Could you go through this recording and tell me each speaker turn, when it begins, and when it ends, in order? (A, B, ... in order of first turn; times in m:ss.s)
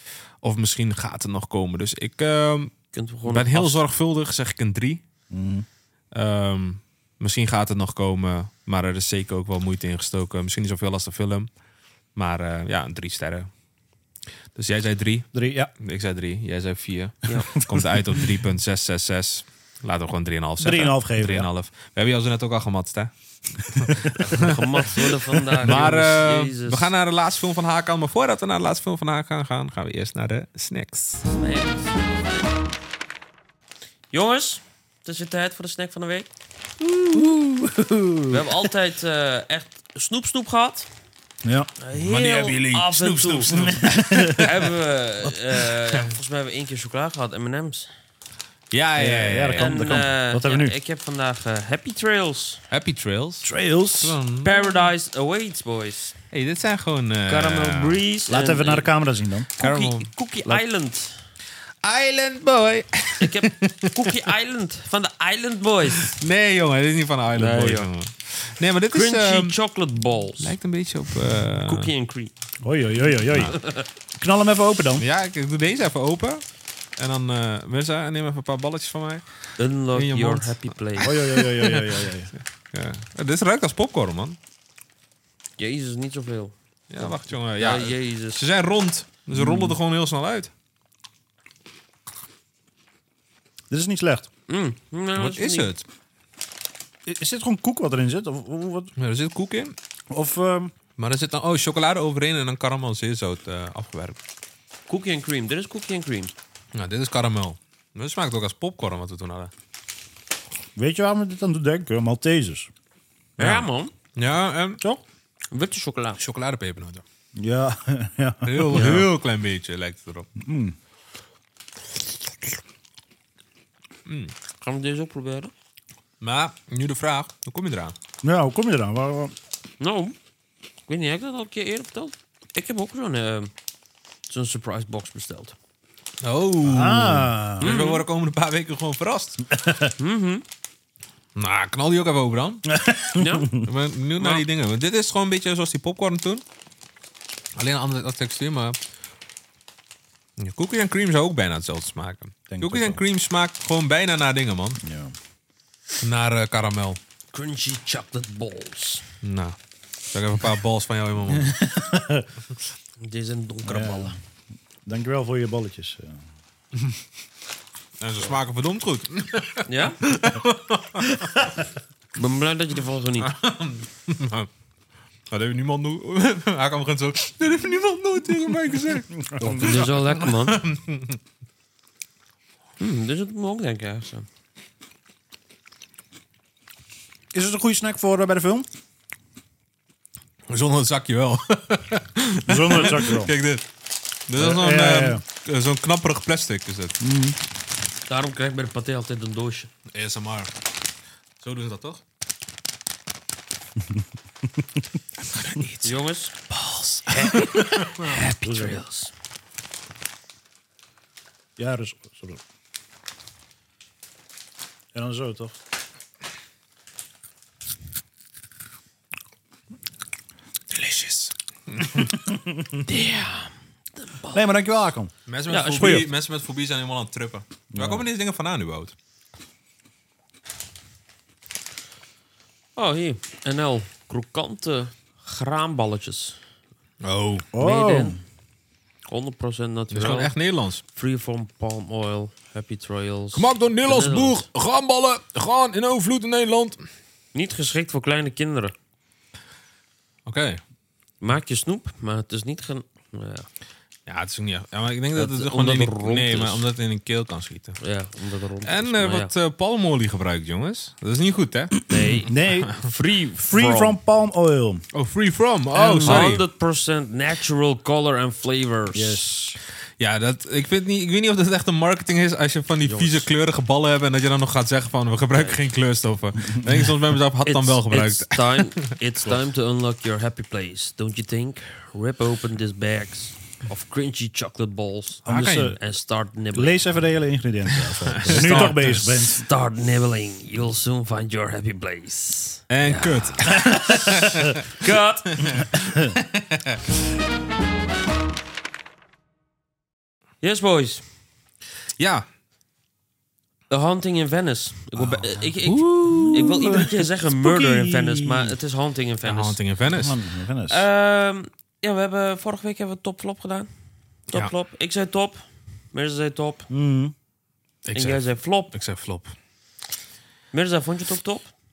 0:00.4-0:02.7 A
0:02.9-0:03.8 B
0:03.3-0:05.0 A
0:05.3-0:05.6 C
0:06.1-0:11.5 A
0:12.1-0:13.5 A
0:14.5-0:25.0 A
0:15.3-0:15.7 C
0:17.3-0:17.5 B
0:17.3-0:18.3 C
0:20.6-0:21.5 C
0:23.8-0:24.2 C
0:24.2-0:26.9 B
0:25.6-0:31.3 A
0:31.3-0:32.4 B
0:34.1-0:36.3 B
0:36.8-0:38.7 C
0:38.3-0:40.9 B
0:41.4-0:41.7 C
0:41.8-0:43.6 B
0:41.9-0:44.7 A
0:43.5-0:44.4 C
0:44.4-0:47.9 B
0:45.6-0:46.1 A
0:48.7-0:49.8 A
0:49.0-0:50.7 C
0:49.6-0:52.6 B
0:52.7-0:54.7 A
0:53.4-0:54.2 C
0:54.4-0:56.2 B
0:56.3-0:58.0 A
0:57.3-0:58.9 B
0:58.3-0:59.5 C
0:59.6-1:00.1 A
0:59.6-1:01.2 B
1:01.8-1:04.3 A
1:03.2-1:06.2 B
1:06.0-1:09.6 A
1:07.3-1:07.9 B
1:08.9-1:10.5 B
1:10.4-1:11.9 A
1:11.6-1:12.3 B
1:12.6-1:13.6 C
1:13.3-1:13.6 A
1:14.1-1:15.0 C
1:15.0-1:16.4 A
1:17.0-1:19.2 A
1:19.6-1:21.2 B
1:19.9-1:21.0 A
1:21.0-1:22.3 C
1:21.6-1:24.4 A
1:25.6-1:28.4 B
1:26.9-1:30.5 A
1:29.3-1:29.8 C
1:33.7-1:34.3 C
1:34.5-1:35.7 B
1:35.2-1:35.8 A
1:37.0-1:38.9 C
1:39.0-1:39.7 A
1:40.1-1:40.7 C
1:41.0-1:44.2 A
1:44.9-1:46.3 B
1:46.7-1:49.5 A
1:50.8-1:52.7 C
1:53.4-1:54.8 A
1:53.4-1:53.9 B
1:55.5-1:56.2 B
1:56.2-1:57.0 A
1:57.4-1:59.0 C
1:58.4-2:00.3 A
1:58.7-1:59.0 B
2:00.4-2:00.8 C
2:04.0-2:04.3 A
2:04.6-2:05.5 B
2:06.2-2:07.9 A
2:08.2-2:09.3 C
2:09.8-2:10.1 B
2:10.9-2:13.5 B
2:14.3-2:15.5 B
2:16.2-2:19.4 A
2:16.6-2:17.8 C
2:17.6-2:18.0 B
2:19.5-2:19.9 C
2:20.0-2:20.4 B
2:21.4-2:22.7 A
2:22.6-2:23.7 C
2:23.2-2:23.6 B
2:23.6-2:26.4 A
2:24.2-2:24.4 B
2:27.6-2:28.8 A
2:30.4-2:34.8 A
2:32.5-2:33.0 C
2:34.8-2:35.1 C
2:36.0-2:37.0 A
2:37.3-2:39.0 B
2:39.2-2:39.6 A
2:40.1-2:41.6 A
2:41.3-2:42.3 C
2:43.0-2:44.2 B
2:43.6-2:44.1 C
2:44.8-2:46.2 C
2:48.0-2:51.2 A
2:49.7-2:50.0 B
2:52.1-2:53.3 B
2:53.2-2:54.5 A
2:55.3-3:01.2 A
2:59.2-2:59.7 C
2:59.5-3:00.6 B
3:02.8-3:04.2 B
3:07.3-3:08.6 C
3:10.5-3:13.6 A
3:12.4-3:13.3 C
3:14.3-3:17.0 A
3:14.4-3:15.2 C
3:17.0-3:17.4 C
3:18.1-3:19.7 B
3:19.9-3:20.5 A
3:21.4-3:22.0 A
3:23.8-3:24.0 C
3:25.3-3:25.8 C
3:25.8-3:26.4 B
3:27.1-3:27.6 C
3:27.1-3:29.1 B
3:27.1-3:28.1 A
3:28.1-3:28.8 C
3:31.6-3:32.4 C
3:34.9-3:35.6 C
3:40.9-3:41.2 A
3:41.7-3:42.1 A
3:41.9-3:42.8 C
3:42.8-3:44.4 B
3:44.3-3:45.1 C
3:45.3-3:48.9 A
3:45.5-3:46.0 B
3:45.7-3:46.1 C
3:47.7-3:48.0 C
3:52.8-3:56.4 B
3:57.0-3:57.5 A
3:57.5-3:58.2 C
3:57.6-3:58.2 B
3:59.1-4:00.3 B
3:59.9-4:00.8 A
4:00.9-4:04.4 B
4:03.3-4:06.8 A
4:07.3-4:08.7 B
4:10.2-4:10.6 A
4:11.2-4:13.5 B
4:14.1-4:17.8 A
4:15.1-4:16.6 B
4:17.8-4:19.3 B
4:18.6-4:22.8 A
4:21.9-4:24.0 B
4:22.2-4:22.7 C
4:23.4-4:24.8 C
4:24.9-4:26.4 A
4:25.7-4:29.2 B
4:26.0-4:26.4 C
4:28.9-4:29.6 C
4:30.0-4:38.8 A
4:32.8-4:33.3 B
4:36.5-4:36.9 C
4:37.4-4:46.8 B
4:45.2-4:45.8 C
4:45.3-4:45.7 A
4:46.5-4:49.4 C
4:48.2-4:49.0 A
4:48.2-4:55.7 B
4:52.7-4:54.6 A
4:55.4-4:56.8 A
4:55.8-4:56.1 C
5:00.4-5:01.0 B
5:02.0-5:02.2 A
5:03.7-5:09.6 B
5:05.0-5:08.6 C
5:05.7-5:06.5 A
5:09.2-5:10.2 A
5:09.8-5:10.8 C
5:10.7-5:13.7 B
5:14.3-5:15.4 B
5:15.9-5:16.7 B
5:16.7-5:17.1 C
5:17.8-5:19.3 A
5:17.9-5:18.7 B
5:20.5-5:21.5 B